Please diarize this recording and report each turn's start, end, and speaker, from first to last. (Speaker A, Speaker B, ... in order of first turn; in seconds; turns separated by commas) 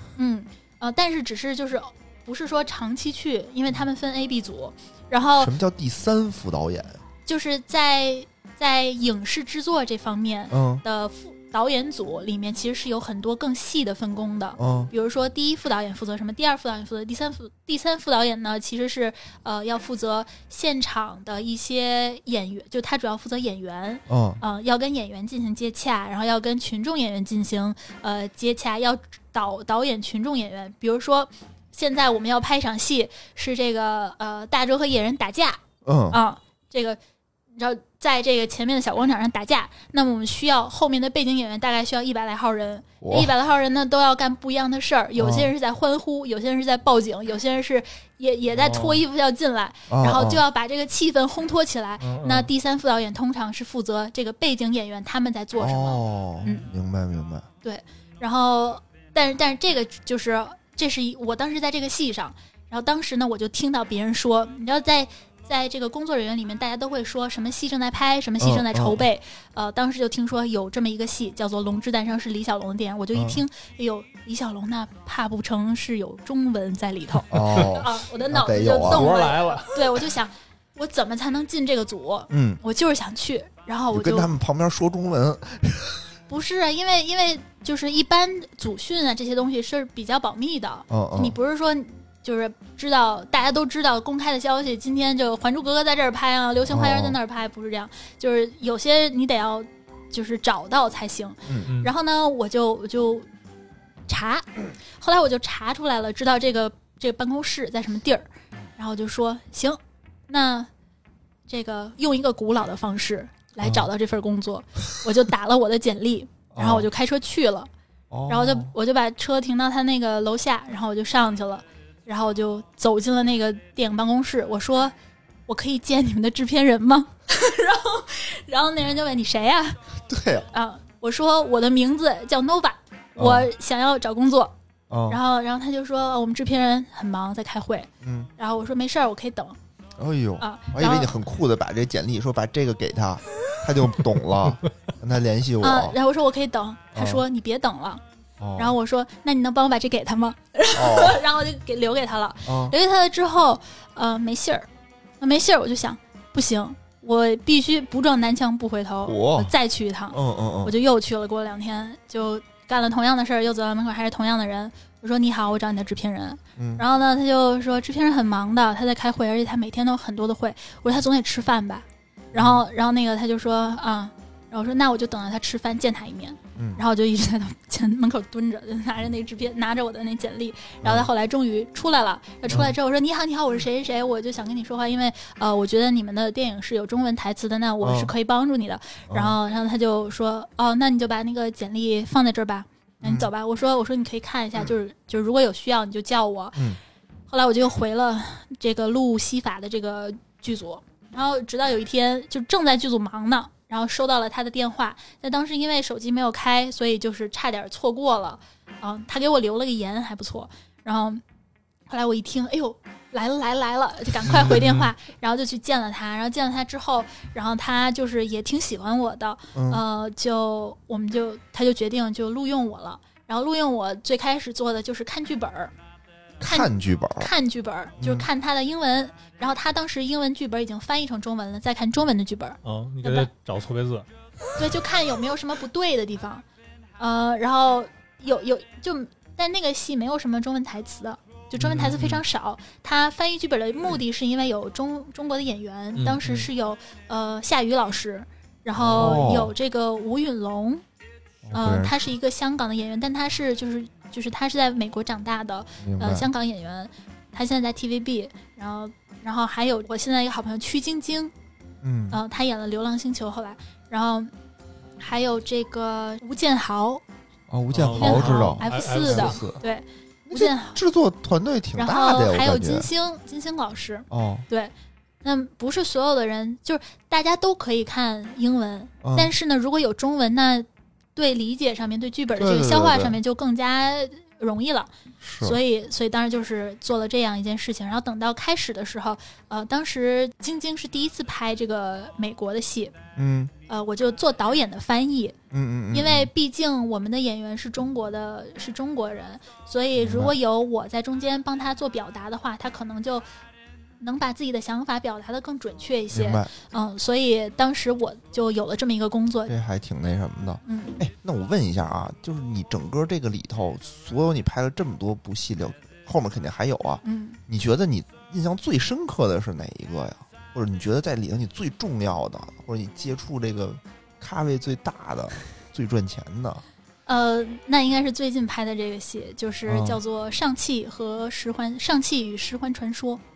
Speaker A: 0.2-5.5, Speaker B: 5.4-7.0, Speaker A: 7.3-35.6, Speaker B: 10.5-10.8, Speaker B: 14.6-14.9, Speaker B: 24.1-24.4, Speaker B: 35.9-36.2, Speaker A: 36.1-37.0, Speaker A: 37.6-56.7, Speaker B: 43.0-43.3, Speaker B: 45.2-45.5, Speaker C: 48.5-49.0, Speaker B: 49.9-50.4, Speaker C: 52.0-52.5, Speaker B: 55.6-57.5, Speaker A: 57.6-84.3, Speaker B: 68.4-69.0, Speaker B: 73.1-73.4, Speaker B: 77.3-79.1, Speaker C: 78.8-80.0, Speaker B: 82.3-82.6, Speaker B: 83.9-86.0, Speaker A: 86.3-103.3, Speaker B: 90.9-91.4, Speaker B: 96.7-97.2, Speaker B: 101.5-101.7, Speaker C: 101.7-101.9, Speaker A: 104.1-110.7, Speaker A: 111.5-117.7, Speaker B: 113.6-113.9, Speaker B: 116.5-116.9, Speaker B: 118.1-118.7, Speaker A: 118.3-124.9, Speaker A: 125.5-129.8, Speaker B: 130.1-130.5, Speaker A: 130.5-134.5, Speaker B: 133.2-133.5, Speaker B: 134.9-135.2, Speaker A: 135.1-139.6, Speaker B: 138.0-138.3, Speaker B: 140.0-146.0, Speaker A: 140.4-141.1, Speaker A: 145.6-148.0, Speaker B: 146.9-147.2, Speaker B: 148.4-148.8, Speaker A: 148.6-154.7, Speaker B: 150.7-151.2, Speaker B: 152.5-152.8, Speaker A: 155.2-196.7, Speaker B: 159.1-159.5, Speaker B: 160.1-160.8, Speaker B: 166.6-166.8, Speaker B: 172.3-172.6, Speaker B: 176.6-176.8, Speaker B: 180.8-181.1, Speaker B: 182.5-182.8, Speaker B: 187.8-188.1, Speaker B: 189.1-189.4, Speaker B: 193.0-193.3, Speaker A: 197.3-211.2, Speaker A: 211.9-225.7, Speaker C: 214.3-214.9, Speaker B: 219.6-219.8, Speaker B: 226.4-227.3, Speaker A: 226.4-233.3, Speaker B: 228.0-228.3, Speaker C: 232.6-234.1, Speaker A: 234.6-236.4, Speaker A: 237.0-250.8, Speaker C: 241.6-242.2, Speaker C: 246.0-246.5, Speaker B: 248.8-249.5, Speaker B: 251.4-252.0, Speaker A: 251.5-261.3, Speaker B: 255.8-256.3, Speaker B: 261.8-262.2, Speaker A: 262.1-264.3, Speaker A: 265.0-267.0, Speaker B: 267.5-269.6, Speaker C: 267.7-269.4, Speaker A: 268.0-270.8, Speaker B: 270.3-272.9, Speaker A: 271.8-274.7, Speaker B: 274.1-274.5, Speaker A: 275.2-292.9, Speaker B: 279.0-279.3, Speaker B: 282.4-283.2, Speaker B: 285.2-285.6, Speaker B: 293.1-293.5, Speaker A: 293.7-295.4, Speaker B: 295.5-296.3, Speaker A: 295.9-303.2, Speaker B: 300.0-300.4, Speaker A: 304.0-309.5, Speaker B: 306.1-306.5, Speaker B: 309.5-326.6, Speaker A: 310.7-311.0, Speaker A: 317.0-317.4, Speaker A: 327.1-333.2, Speaker B: 329.7-330.0